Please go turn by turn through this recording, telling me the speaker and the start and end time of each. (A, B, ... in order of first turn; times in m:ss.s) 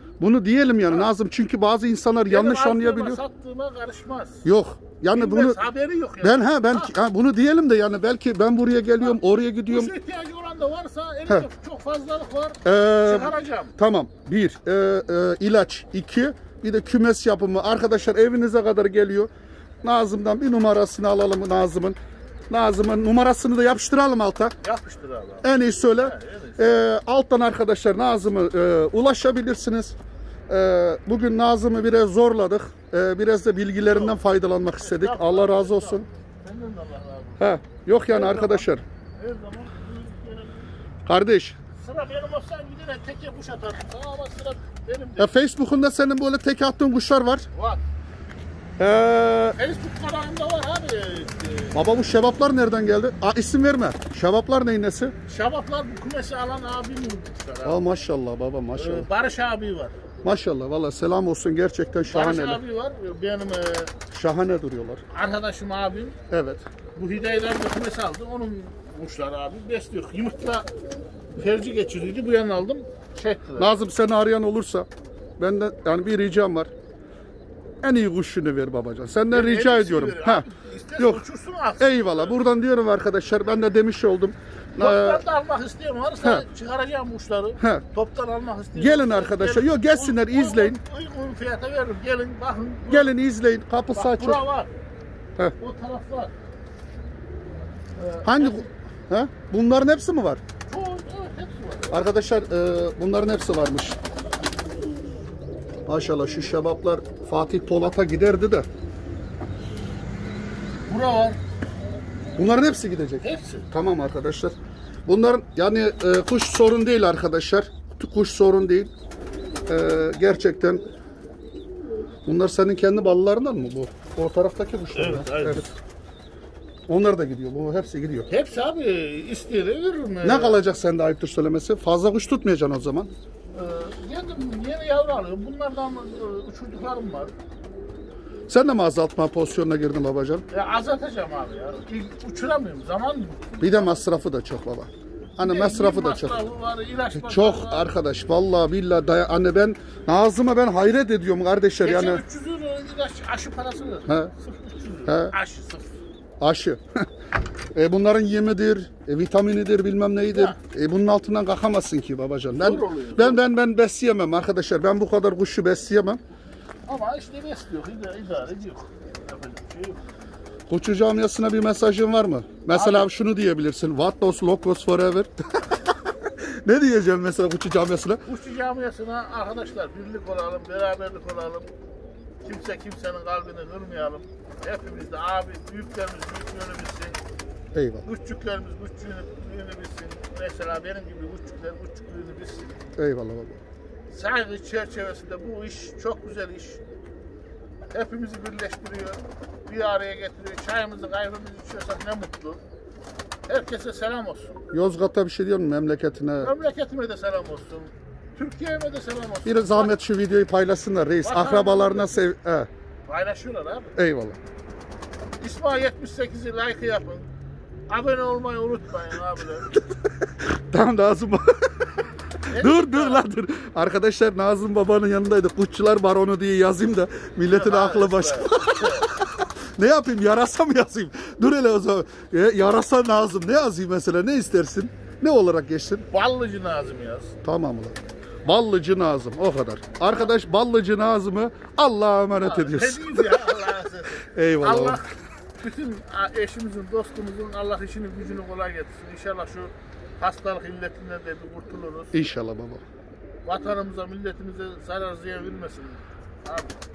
0:00.2-0:03.2 A
0:02.3-0:04.5 B
0:04.4-0:05.6 A
0:05.1-0:06.9 B
0:06.2-0:09.9 A
0:09.0-0:13.8 B
0:12.6-0:19.3 A
0:19.8-0:22.0 A
0:22.5-0:24.6 A
0:24.6-0:26.8 B
0:25.4-0:30.0 A
0:30.5-0:36.0 A
0:33.9-0:34.2 B
0:34.8-0:37.6 B
0:37.4-0:38.8 A
0:38.1-0:40.7 B
0:41.1-0:41.6 A
0:41.8-0:45.3 B
0:45.2-0:47.5 A
0:47.5-0:47.8 B
0:48.8-0:49.6 A
0:49.6-0:51.8 B
0:51.7-0:55.1 A
0:55.3-0:57.9 B
0:57.6-0:59.1 A
0:58.8-1:00.0 B
1:00.2-1:02.6 A
1:02.1-1:03.9 B
1:04.1-1:05.0 A
1:05.1-1:06.2 B
1:06.3-1:06.7 A
1:07.0-1:10.7 B
1:11.4-1:13.7 B
1:13.6-1:14.9 A
1:15.4-1:16.7 A
1:17.8-1:20.5 A
1:19.3-1:22.4 B
1:21.0-1:21.2 A
1:21.8-1:25.2 A
1:24.8-1:33.2 B
1:27.6-1:27.8 A
1:28.8-1:30.8 A
1:32.9-1:34.4 A
1:33.9-1:34.7 B
1:35.6-1:36.4 B
1:38.0-1:38.7 B
1:38.2-1:40.4 A
1:40.7-1:42.0 B
1:41.9-1:44.0 A
1:45.9-1:48.7 A
1:50.9-1:51.4 B
1:52.4-1:54.6 A
1:53.2-1:53.7 B
1:55.1-1:58.9 A
1:59.7-2:00.8 A
2:02.2-2:05.7 A
2:04.9-2:05.7 B
2:06.9-2:08.3 A
2:08.3-2:10.6 B
2:10.2-2:13.1 A
2:13.5-2:17.3 B
2:18.5-2:20.4 A
2:20.5-2:24.0 B
2:23.6-2:26.4 A
2:25.4-2:27.9 B
2:27.2-2:32.2 A
2:31.8-2:36.0 B
2:34.1-2:34.3 A
2:35.1-2:35.3 A
2:36.4-2:37.1 A
2:37.7-2:46.2 A
2:40.3-2:40.6 B
2:42.5-2:43.4 B
2:46.9-2:50.0 B
2:50.7-2:55.8 A
2:52.7-2:53.1 B
2:56.3-2:58.2 A
2:58.3-3:01.7 B
3:02.4-3:07.2 B
3:07.7-3:08.0 A
3:08.0-3:12.8 B
3:13.0-3:13.6 A
3:14.1-3:16.8 B
3:17.9-3:22.6 B
3:23.5-3:24.6 B
3:24.7-3:26.5 A
3:26.4-3:30.0 B
3:29.4-3:32.7 A
3:31.2-3:32.2 B
3:33.1-3:34.0 B
3:34.0-3:34.4 A
3:35.4-3:37.3 B
3:37.9-3:39.8 B
3:40.4-3:41.9 A
3:42.5-3:43.2 B
3:42.5-3:56.0 A
3:47.5-3:49.1 B
3:56.1-3:57.4 B
3:57.4-4:03.7 A
4:02.4-4:12.2 B
4:04.2-4:05.0 A
4:12.1-4:12.8 A
4:13.5-4:16.8 B